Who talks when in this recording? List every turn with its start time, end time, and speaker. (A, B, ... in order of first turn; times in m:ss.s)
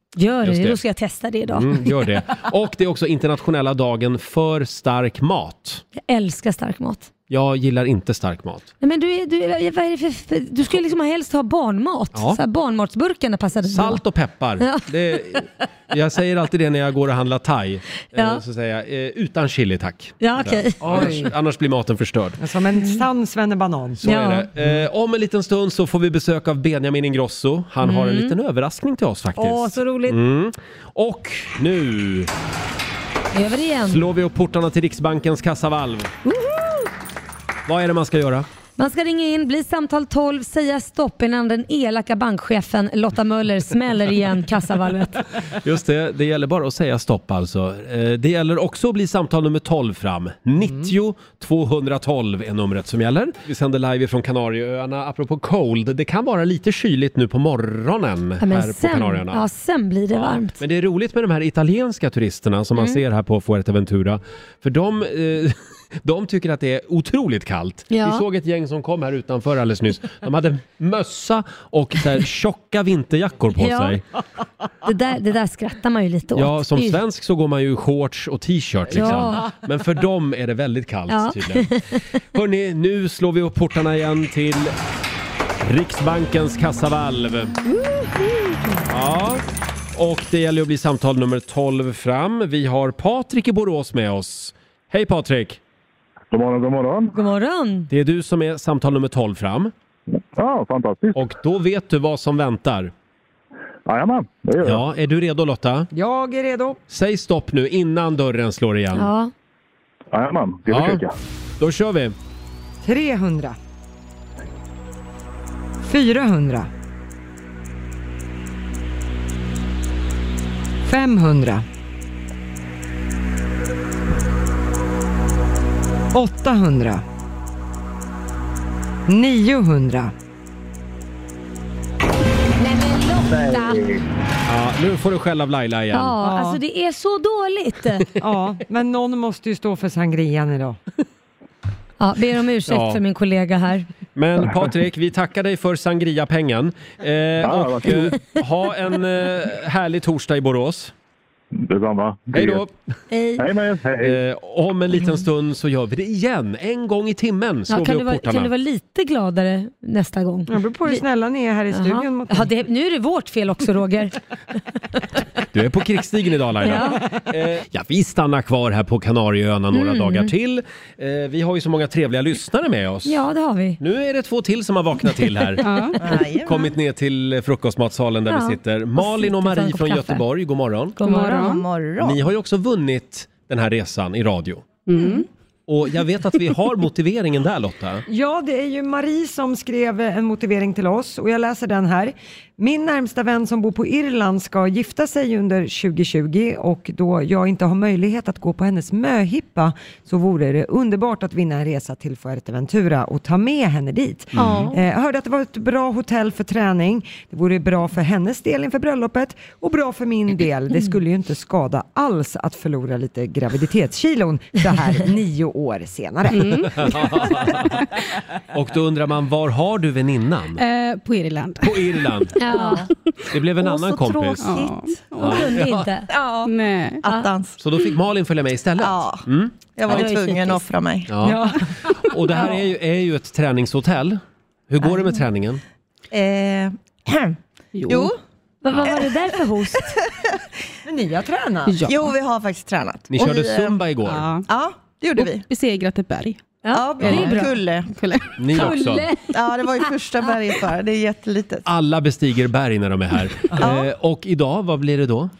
0:00.2-0:01.9 A
0:00.4-0:00.8 B
0:01.5-0:05.8 B
0:06.0-0:07.1 A
0:07.3-0:08.7 B
0:08.8-0:14.0 A
0:12.1-0:12.4 B
0:13.6-0:22.4 B
0:14.6-0:15.4 A
0:18.1-0:18.4 A
0:20.2-0:21.1 A
0:20.8-0:21.3 C
0:22.4-0:24.0 C
0:24.0-0:32.3 B
0:24.0-0:24.5 A
0:27.8-0:28.3 A
0:29.4-0:30.2 A
0:33.3-0:34.0 A
0:33.8-0:36.1 B
0:36.3-0:36.8 A
0:37.7-0:38.5 B
0:38.8-0:45.2 A
0:45.6-0:59.4 B
0:58.4-1:00.6 A
1:00.2-1:14.0 B
1:02.8-1:03.0 A
1:07.9-1:08.2 A
1:13.5-1:14.0 A
1:14.8-1:17.0 A
1:16.3-1:21.8 B
1:18.9-1:19.5 A
1:21.1-1:22.0 A
1:22.3-1:24.7 B
1:25.6-1:27.6 B
1:27.6-1:28.8 A
1:28.9-1:29.4 B
1:29.9-1:35.6 B
1:36.3-1:37.1 D
1:37.1-1:37.9 A
1:37.9-1:39.7 B
1:40.3-1:41.2 D
1:41.1-1:42.9 B
1:43.9-1:44.8 D
1:44.6-1:45.9 B
1:45.9-1:46.8 C
1:46.9-1:49.1 B
1:48.9-1:49.3 A
1:50.1-1:51.1 D
1:50.7-1:51.0 B
1:51.6-1:52.1 B
1:52.8-1:53.6 C
1:55.8-1:56.7 C
2:00.8-2:01.6 C
2:06.1-2:07.0 C
2:09.1-2:10.1 C
2:12.6-2:13.9 A
2:14.4-2:16.2 B
2:15.9-2:18.1 A
2:16.2-2:16.6 C
2:18.2-2:20.8 C
2:22.0-2:23.9 A
2:22.7-2:23.0 B
2:24.2-2:30.9 B
2:27.4-2:28.1 D
2:31.5-2:32.6 D
2:32.3-2:32.7 B
2:33.1-2:33.5 A
2:33.4-2:34.2 D
2:34.0-2:38.5 B
2:37.7-2:41.0 A
2:40.5-2:42.5 C
2:41.7-2:44.1 A
2:45.5-2:53.2 B
2:46.6-2:47.1 A
2:49.7-2:50.3 A
2:53.0-2:53.8 A
2:53.8-2:55.7 B
2:55.6-2:56.0 E
2:56.0-2:56.7 F
2:56.4-3:01.0 B
2:58.3-3:00.2 A
3:01.0-3:01.6 A
3:01.0-3:01.6 E
3:01.3-3:02.2 F
3:02.0-3:04.7 B
3:04.9-3:05.2 E
3:05.7-3:08.0 B
3:08.1-3:36.7 C
3:24.3-3:24.7 B
3:24.4-3:24.7 E
3:36.3-3:37.3 E
3:36.5-3:40.6 B
3:40.6-3:41.9 E
3:41.6-3:42.6 B
3:42.3-3:42.9 A
3:42.5-3:42.8 E
3:43.3-3:44.4 B
3:43.6-3:44.9 F
3:44.4-3:45.4 E
3:45.2-3:45.9 B
3:45.2-3:46.1 A
3:46.1-3:47.6 F
3:46.4-3:47.0 E
3:47.6-3:49.5 B
3:48.8-3:49.2 F
3:49.8-3:51.3 F
3:49.9-3:50.6 A
3:51.1-3:55.6 B
3:51.2-3:51.9 C
3:54.8-3:55.2 F
3:56.1-3:58.2 F
3:57.7-3:58.1 E
3:58.6-4:00.0 A
3:58.8-4:00.2 F
4:00.8-4:01.8 C
4:01.7-4:02.1 E
4:01.8-4:03.8 F
4:03.1-4:04.3 B
4:04.0-4:04.5 E
4:04.5-4:05.4 F
4:05.2-4:06.4 E
4:06.6-4:07.5 A
4:06.7-4:07.9 F
4:07.0-4:08.4 E
4:08.4-4:09.1 B
4:08.5-4:09.3 A
4:09.3-4:11.6 F
4:11.6-4:15.3 B
4:13.6-4:13.9 F